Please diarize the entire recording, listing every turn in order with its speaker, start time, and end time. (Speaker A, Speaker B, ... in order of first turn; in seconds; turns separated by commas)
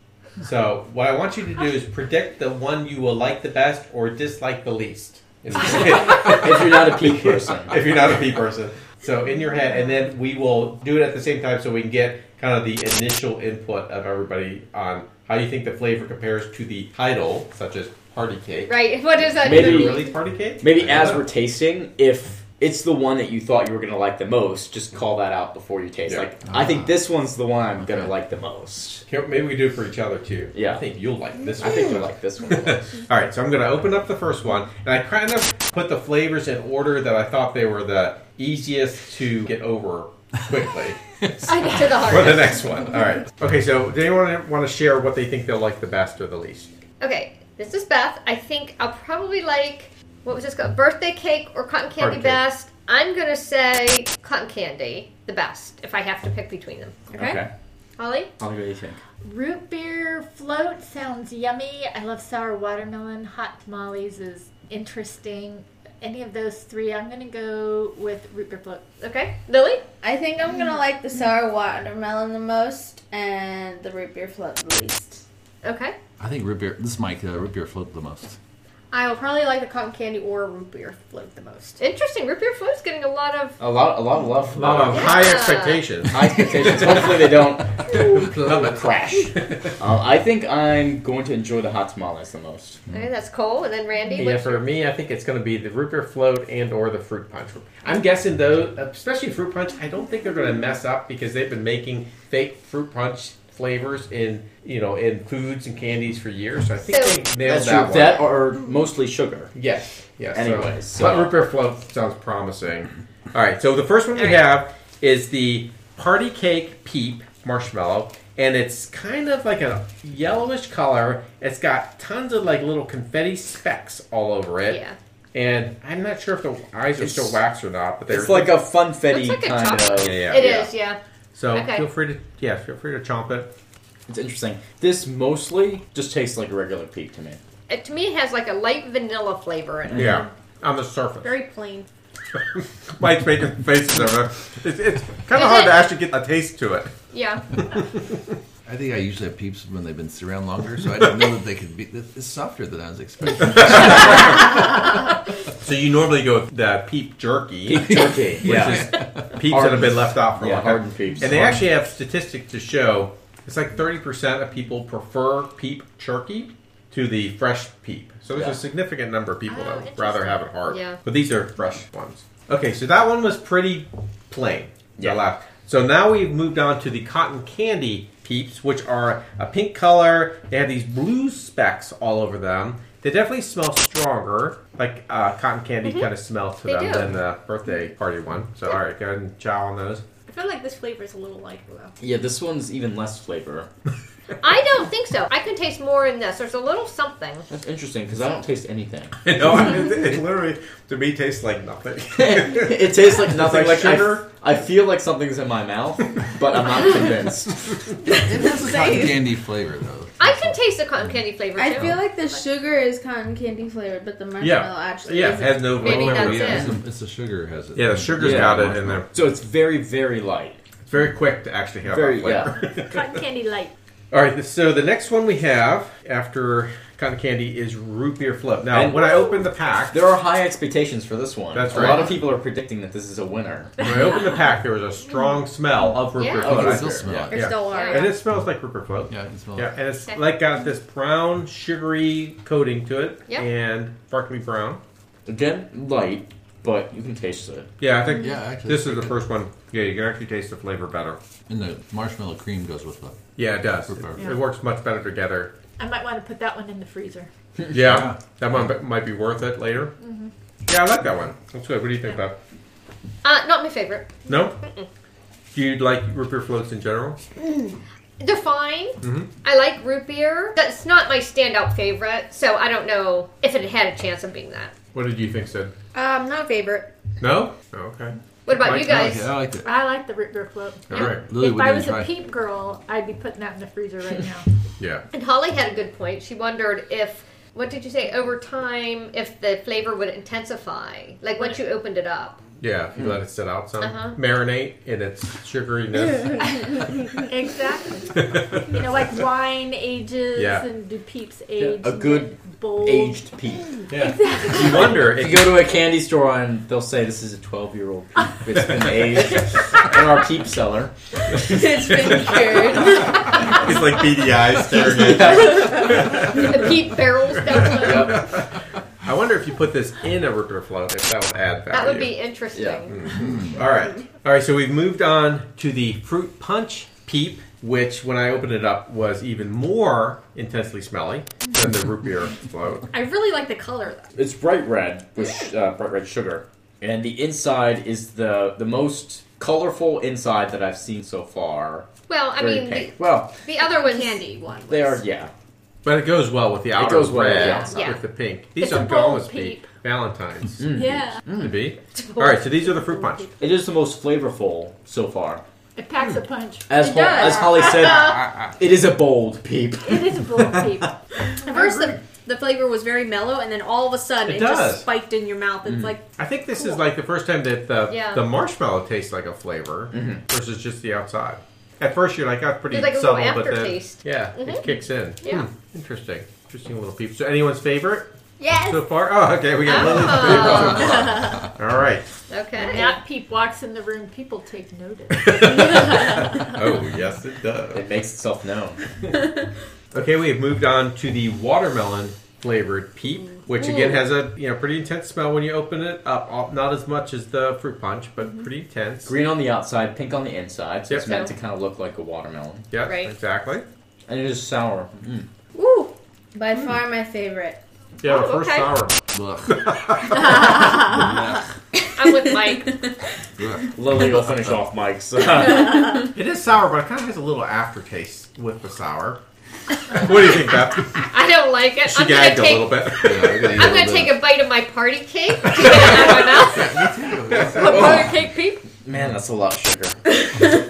Speaker A: 0.4-21.2, Speaker B: 6.2-7.8, Speaker C: 18.7-20.1, Speaker B: 19.4-20.1, Speaker B: 20.6-29.0, Speaker D: 26.4-27.0, Speaker D: 27.8-28.1, Speaker A: 29.1-46.7, Speaker B: 30.5-30.8, Speaker B: 31.6-32.9, Speaker C: 41.5-42.6, Speaker C: 47.0-57.1, Speaker A: 52.0-52.4, Speaker B: 57.1-57.5, Speaker E: 57.1-57.4, Speaker C: 58.0-58.3, Speaker B: 58.4-59.0, Speaker F: 59.2-68.8, Speaker C: 69.0-69.5, Speaker E: 69.5-69.8, Speaker G: 70.0-75.2, Speaker C: 75.6-76.0, Speaker D: 76.2-78.4, Speaker E: 78.9-81.8, Speaker C: 81.8-83.6, Speaker B: 83.6-85.2, Speaker A: 84.5-87.3, Speaker C: 84.9-85.8, Speaker B: 86.1-92.8, Speaker A: 88.2-88.7, Speaker C: 92.9-94.6, Speaker A: 94.1-108.2, Speaker C: 106.9-107.2, Speaker B: 107.4-109.5, Speaker A: 109.5-124.8, Speaker B: 110.3-111.3, Speaker C: 114.2-114.4, Speaker C: 124.7-125.0, Speaker A: 125.3-128.6, Speaker B: 127.0-127.3, Speaker B: 128.1-130.7, Speaker C: 129.1-131.0, Speaker A: 130.0-130.7, Speaker A: 131.3-133.5, Speaker C: 131.5-131.9, Speaker B: 134.1-137.4, Speaker C: 137.7-140.2, Speaker B: 139.9-140.2, Speaker A: 139.9-141.4, Speaker E: 141.2-141.9, Speaker A: 142.3-146.9, Speaker C: 145.3-145.9, Speaker C: 147.1-147.4, Speaker D: 148.7-154.3, Speaker A: 153.4-154.6, Speaker A: 155.6-190.0, Speaker B: 157.7-161.6, Speaker D: 158.4-159.2, Speaker D: 161.2-161.6, Speaker C: 169.5-171.0, Speaker C: 186.6-187.1, Speaker E: 190.3-191.9, Speaker B: 192.0-193.7, Speaker C: 194.4-197.5, Speaker B: 197.5-199.2, Speaker A: 199.2-204.2, Speaker B: 202.2-207.6, Speaker D: 208.1-210.6, Speaker G: 208.5-209.2, Speaker C: 210.2-212.0, Speaker G: 211.6-215.8, Speaker A: 214.4-216.7, Speaker D: 215.8-219.0, Speaker C: 215.8-216.7, Speaker A: 217.7-219.0, Speaker B: 218.2-220.6, Speaker A: 220.8-223.2, Speaker B: 221.8-222.5, Speaker F: 222.8-223.7, Speaker A: 224.1-230.0, Speaker B: 228.7-229.2, Speaker B: 229.9-233.8, Speaker A: 231.5-232.2, Speaker A: 233.8-244.8, Speaker C: 236.2-236.6, Speaker B: 236.4-237.1, Speaker D: 236.5-237.6, Speaker E: 237.3-238.2, Speaker C: 237.6-238.1, Speaker D: 239.1-239.7, Speaker B: 245.2-247.7, Speaker A: 247.8-251.2, Speaker D: 248.2-249.1, Speaker D: 251.5-253.2, Speaker A: 253.4-255.5, Speaker D: 253.8-254.3, Speaker F: 255.8-257.3, Speaker A: 257.7-259.9, Speaker D: 257.8-258.2, Speaker F: 260.0-260.3, Speaker A: 260.7-262.4, Speaker C: 263.2-264.9, Speaker A: 264.2-264.6, Speaker A: 265.5-267.2, Speaker C: 268.2-274.7, Speaker A: 269.0-269.3, Speaker A: 274.9-275.7, Speaker E: 275.9-276.9, Speaker A: 277.2-279.2, Speaker C: 278.4-279.3, Speaker D: 278.6-279.7, Speaker F: 279.6-284.5, Speaker A: 280.9-281.2, Speaker D: 280.9-282.1, Speaker C: 285.1-292.4, Speaker A: 292.6-296.8, Speaker C: 293.8-294.2, Speaker F: 296.4-303.2, Speaker A: 298.3-298.7, Speaker A: 300.3-300.6, Speaker B: 301.6-303.7, Speaker A: 303.9-305.6, Speaker F: 304.0-304.9, Speaker B: 304.8-312.1, Speaker G: 311.4-313.4, Speaker A: 311.9-316.5, Speaker B: 314.7-316.4, Speaker C: 316.1-318.2, Speaker A: 317.5-318.3, Speaker B: 317.6-318.3, Speaker A: 319.0-322.1, Speaker C: 321.7-323.0, Speaker B: 322.5-322.8, Speaker A: 322.9-332.9, Speaker D: 323.2-323.6, Speaker E: 332.9-334.1, Speaker B: 334.1-343.4, Speaker C: 342.1-344.2, Speaker E: 343.5-345.0, Speaker B: 344.7-345.3, Speaker A: 345.8-353.4, Speaker B: 346.7-347.8, Speaker C: 347.4-348.0, Speaker F: 348.6-349.7, Speaker B: 350.6-351.6, Speaker F: 350.8-351.2, Speaker C: 351.9-352.5, Speaker B: 353.4-355.4, Speaker F: 355.8-357.0, Speaker B: 356.7-360.2, Speaker G: 356.8-357.6, Speaker E: 357.0-357.4, Speaker A: 357.7-358.5, Speaker F: 359.8-361.3, Speaker E: 361.4-366.1, Speaker A: 361.5-362.0, Speaker A: 364.2-364.9, Speaker B: 365.6-365.9, Speaker A: 366.2-382.1, Speaker C: 367.9-368.2, Speaker B: 369.9-370.2, Speaker C: 372.7-374.7, Speaker G: 378.4-378.8, Speaker C: 379.6-381.2, Speaker C: 382.3-382.9, Speaker F: 382.6-386.4, Speaker A: 385.2-387.9, Speaker B: 387.7-388.8, Speaker A: 389.9-399.1, Speaker B: 399.1-402.7, Speaker C: 401.0-401.3, Speaker A: 402.7-403.6, Speaker C: 402.8-403.1, Speaker B: 404.1-405.3, Speaker E: 405.6-405.9, Speaker G: 406.3-407.6, Speaker A: 408.0-410.4, Speaker C: 408.0-408.7, Speaker D: 409.1-411.4, Speaker C: 412.0-412.8, Speaker D: 413.4-414.6, Speaker B: 413.7-416.1, Speaker A: 416.1-419.2, Speaker A: 419.9-421.1, Speaker C: 421.1-428.6, Speaker A: 421.8-423.8, Speaker D: 423.0-424.2, Speaker A: 425.5-427.7, Speaker D: 425.7-428.2, Speaker B: 427.7-428.1, Speaker B: 428.8-430.0